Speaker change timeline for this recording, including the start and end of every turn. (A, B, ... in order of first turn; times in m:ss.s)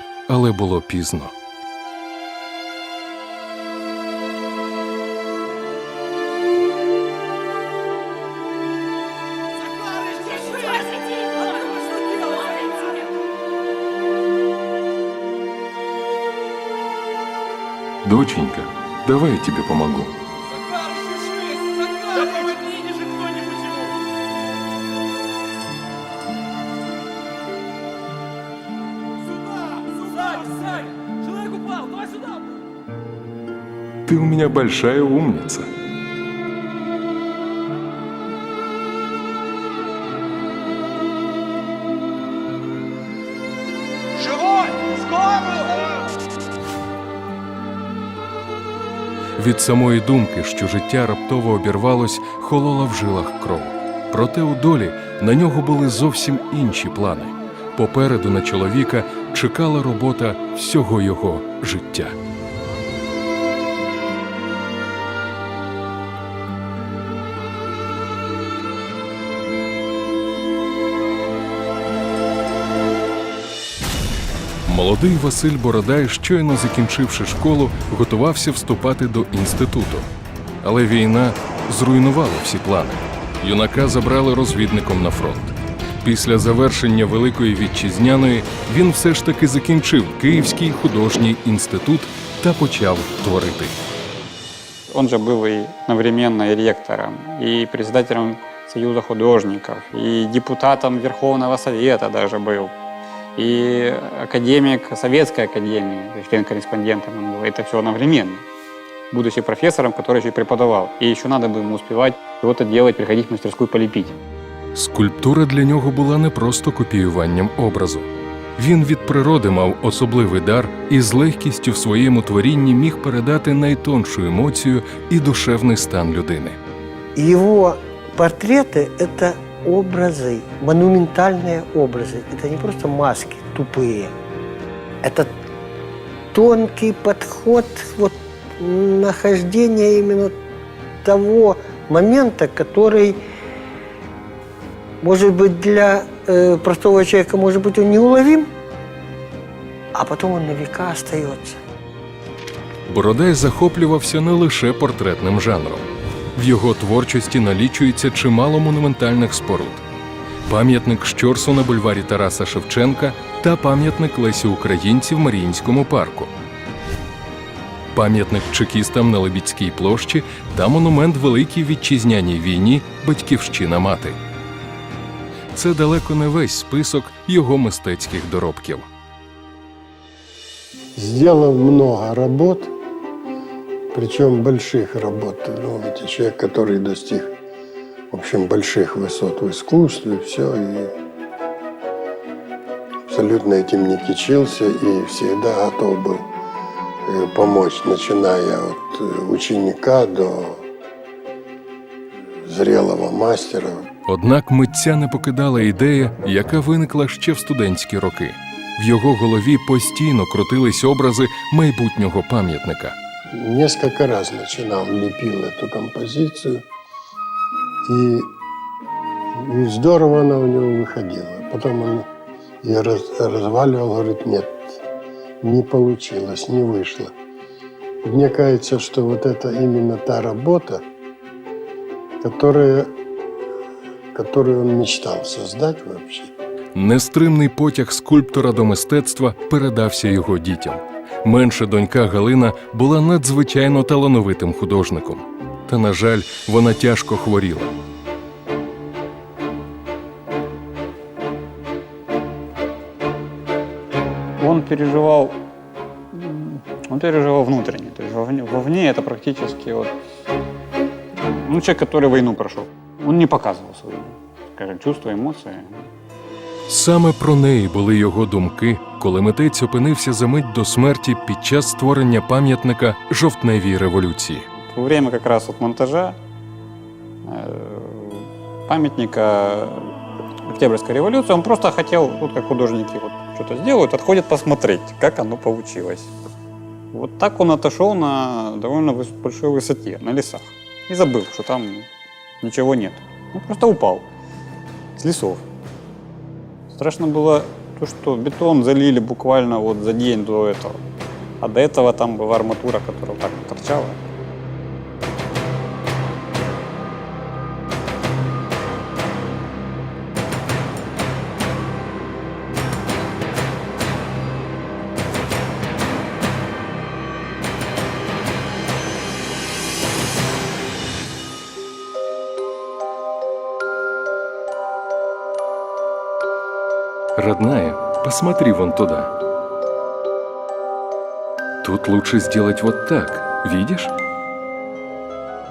0:00.3-0:01.3 A
0:18.0-0:20.1 A
0:34.0-0:35.7 A
0:49.4-1:02.2 A
1:14.6-1:20.1 A
1:20.6-1:33.8 A
1:34.9-1:42.7 B
1:43.4-1:48.4 B
1:49.1-1:54.2 B
1:54.7-2:06.6 A
2:07.2-2:14.1 C
2:15.0-2:15.3 C
2:16.3-2:20.3 C
2:21.0-2:23.2 C
2:25.0-2:28.5 C
2:29.9-2:31.6 C
2:32.9-2:39.8 A
2:40.5-2:46.3 A
2:47.9-2:54.2 A
2:55.5-2:58.9 A
3:01.0-3:02.7 D
3:03.9-3:07.3 D
3:08.1-3:10.9 D
3:13.0-3:16.2 D
3:17.0-3:20.6 D
3:22.4-3:23.9 D
3:24.1-3:33.0 A
3:33.3-3:36.6 D
3:37.8-3:38.3 D
3:39.3-3:42.1 D
3:42.6-3:44.8 D
3:45.4-3:47.1 D
3:48.0-3:50.8 D
3:52.2-3:52.9 D
3:54.1-3:56.3 D
3:56.7-4:07.7 A
4:14.4-4:15.4 B
4:16.1-4:19.9 B
4:21.2-4:25.8 B
4:26.7-4:34.5 A
4:34.6-4:36.2 B
4:37.2-4:46.1 B
4:46.9-4:51.9 B
4:52.4-4:54.1 B
4:55.0-4:55.4 B
4:56.7-5:00.8 B
5:01.4-5:04.0 B
5:27.2-5:29.1 A
5:31.6-5:33.9 A